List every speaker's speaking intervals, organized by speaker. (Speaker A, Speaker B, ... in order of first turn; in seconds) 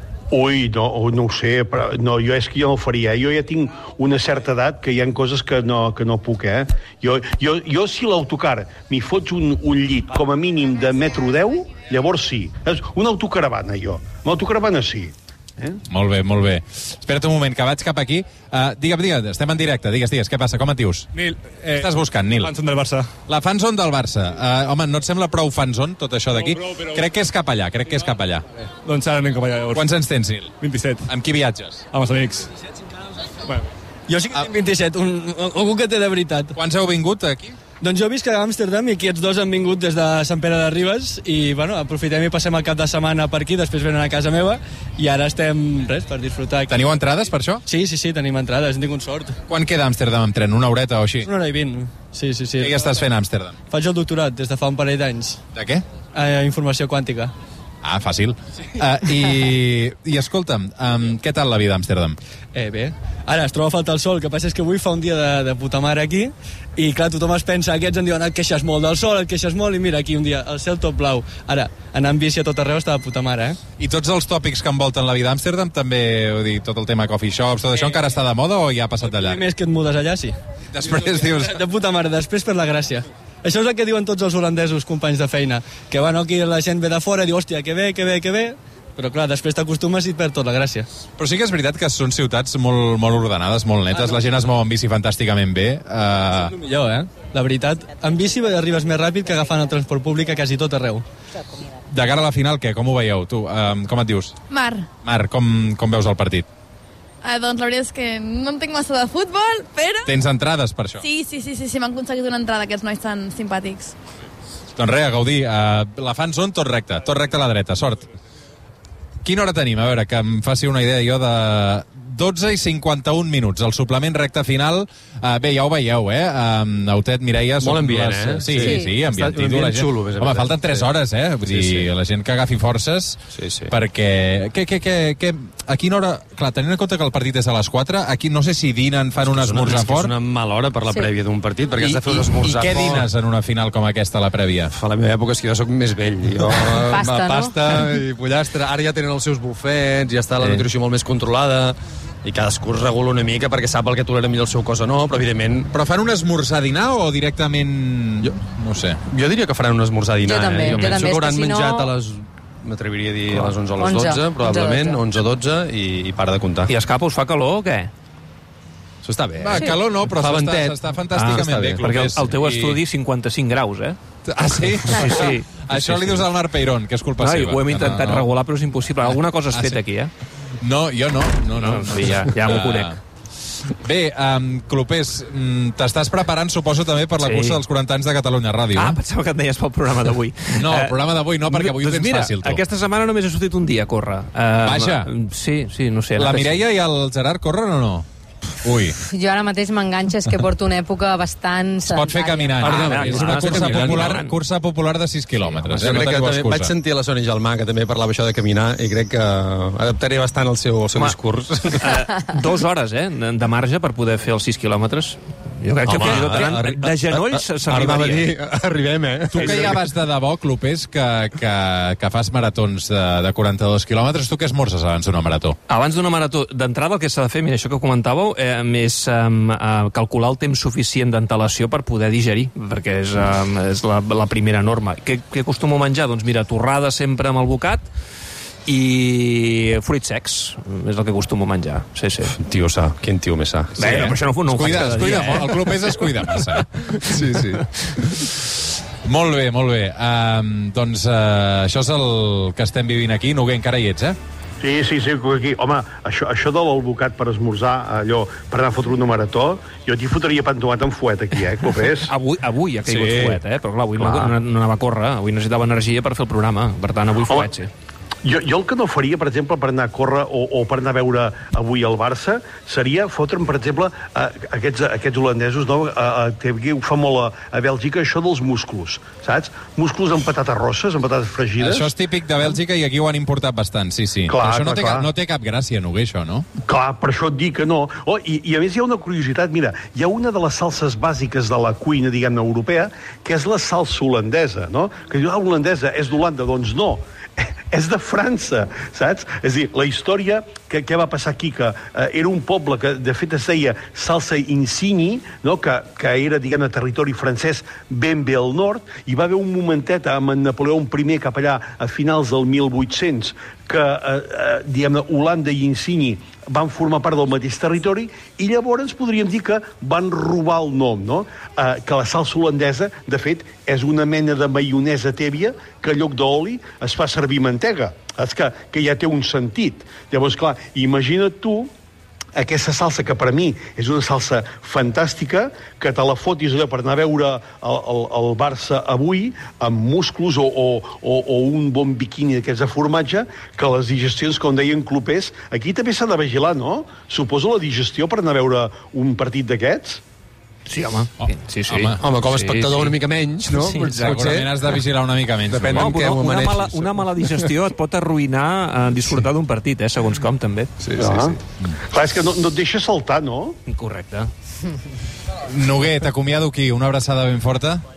Speaker A: 0.3-15.8, 254.6-262.1, 268.2-281.9, 284.3-285.1, 286.6-331.7, 332.4-350.0, 361.0-363.6
Speaker B: 15.9-21.1, 21.7-22.5, 23.3-28.4, 29.7-30.5, 31.1-31.8, 36.5-37.5, 46.7-47.6, 49.5-51.3, 52.6-53.5, 55.5-55.8, 57.8-62.2, 73.8-79.4, 80.7-81.6, 91.2-96.5, 101.9-104.3, 105.0-106.5, 110.0-111.0, 114.8-118.0, 119.2-133.2, 133.7-140.1, 141.8-144.7, 155.7-159.0, 169.4-172.8, 174.2-178.3, 179.0-179.8, 180.6-183.0, 183.7-189.0, 190.6-192.6, 194.6-195.1, 196.2-198.0, 198.6-199.0, 201.8-206.7, 219.3-225.6, 243.8-246.7, 249.0-254.2, 281.6-286.4, 351.7-351.9, 353.9-355.9, 365.4-367.8
Speaker C: 21.1-23.1, 26.7-27.0, 28.8-29.9, 30.6-31.1, 31.9-32.5
Speaker D: 34.1-36.5, 37.8-46.7, 47.7-49.3, 51.2-52.8, 53.7-55.4, 56.1-57.3, 62.5-73.6, 79.0-80.3, 81.3-90.8, 96.6-101.0
Speaker E: 104.5-104.8, 107.2-110.1, 111.0-113.9
Speaker F: 127.6-131.9, 133.3-133.7, 139.2-143.1, 144.7-155.7, 159.1-166.7, 169.0-171.8, 202.6-204.2, 205.6-212.0, 215.8-219.8, 242.3-244.9, 247.1-247.6, 352.0-354.6, 355.5-357.5, 360.8-361.3
Speaker G: 128.6-128.9, 146.7-147.8, 160.2-161.9, 163.3-165.0, 199.0-202.7
Speaker H: 166.7-167.9, 171.1-174.0, 174.8-176.3, 177.2-180.1, 181.5-183.0, 187.2-187.6, 188.7-196.6, 202.7-204.3, 205.4-205.7, 211.8-218.3, 225.7-237.9, 238.7-242.3, 243.8-246.4, 262.0-267.7, 350.7-354.5, 355.7-360.7, 363.7-364.3